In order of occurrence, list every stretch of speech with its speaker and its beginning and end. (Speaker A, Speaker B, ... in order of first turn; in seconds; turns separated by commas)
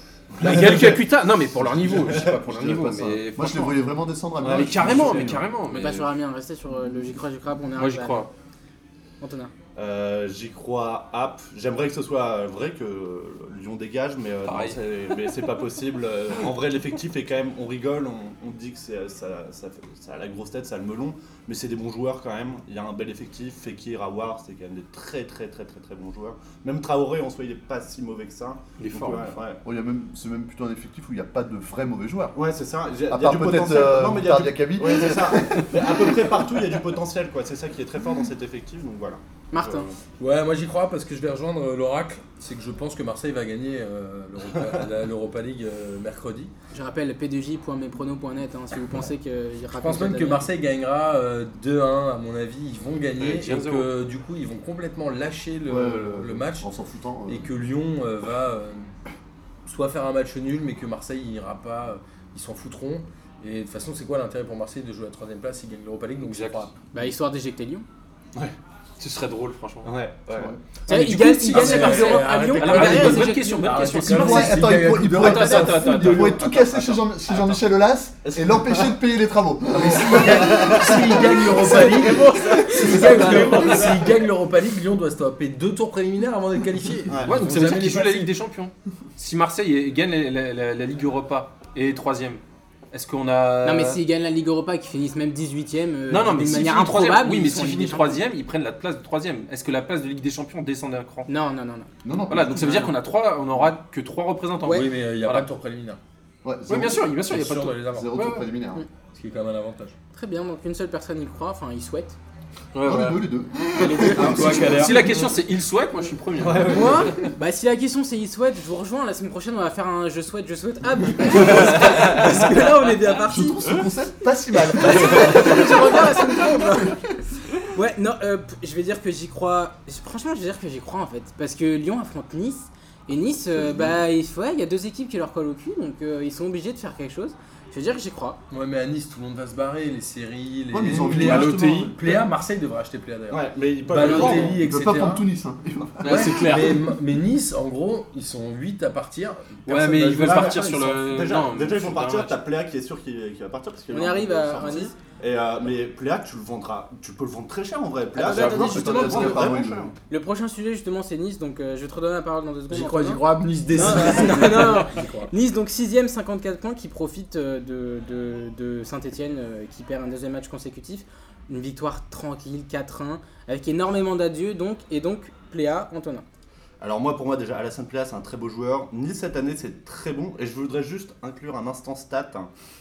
Speaker A: 0.4-3.9, Speaker B: 1.6-5.4, Speaker C: 4.4-5.3, Speaker A: 4.4-6.1, Speaker D: 5.7-8.3, Speaker A: 7.8-8.3, Speaker D: 9.2-9.5, Speaker C: 9.8-29.6, Speaker A: 14.4-14.8, Speaker A: 28.8-29.3, Speaker B: 29.6-32.4, Speaker C: 32.3-40.0, Speaker B: 33.1-36.4, Speaker D: 39.5-39.9, Speaker E: 40.2-46.5, Speaker D: 46.7-50.5, Speaker E: 49.7-56.7, Speaker A: 53.2-53.9, Speaker B: 55.7-57.5, Speaker E: 57.3-58.9, Speaker E: 59.6-66.8, Speaker A: 66.2-66.7, Speaker D: 66.9-67.8, Speaker A: 69.0-70.0, Speaker C: 69.8-70.5, Speaker B: 70.3-70.6, Speaker A: 70.9-77.6, Speaker D: 70.9-74.5, Speaker E: 70.9-76.4, Speaker B: 74.0-81.8, Speaker D: 75.2-75.7, Speaker C: 78.2-78.9, Speaker E: 79.7-88.3, Speaker C: 80.0-84.0, Speaker D: 81.5-83.8, Speaker A: 83.1-83.9, Speaker C: 87.1-87.3, Speaker A: 87.2-92.4, Speaker A: 92.9-94.0, Speaker D: 93.6-98.2, Speaker A: 96.1-101.3, Speaker D: 101.3-101.9, Speaker B: 102.0-103.0, Speaker A: 102.3-105.5, Speaker D: 104.6-104.9, Speaker E: 104.7-106.0, Speaker B: 106.4-107.2, Speaker A: 106.7-108.5, Speaker E: 107.2-108.2, Speaker B: 107.8-108.8, Speaker E: 109.1-109.9, Speaker D: 110.1-112.2, Speaker A: 112.7-113.2, Speaker B: 112.8-115.4, Speaker E: 113.8-115.2, Speaker D: 113.8-114.5, Speaker A: 114.0-117.3, Speaker C: 116.4-117.2, Speaker D: 116.6-123.7, Speaker A: 121.5-122.7, Speaker B: 123.2-127.0, Speaker D: 124.8-127.0, Speaker A: 124.8-125.1, Speaker D: 127.6-138.4, Speaker B: 133.6-133.9, Speaker E: 138.5-145.2, Speaker B: 140.7-142.2, Speaker A: 140.9-141.9, Speaker C: 143.3-144.6, Speaker B: 144.0-146.7, Speaker A: 144.1-144.4, Speaker A: 146.0-146.9, Speaker E: 146.0-151.0, Speaker A: 149.7-152.4, Speaker C: 150.2-159.9, Speaker D: 153.9-154.9, Speaker D: 158.2-176.2, Speaker A: 158.2-158.7, Speaker B: 158.3-159.9, Speaker E: 162.7-165.3, Speaker C: 163.8-164.3, Speaker C: 176.8-182.5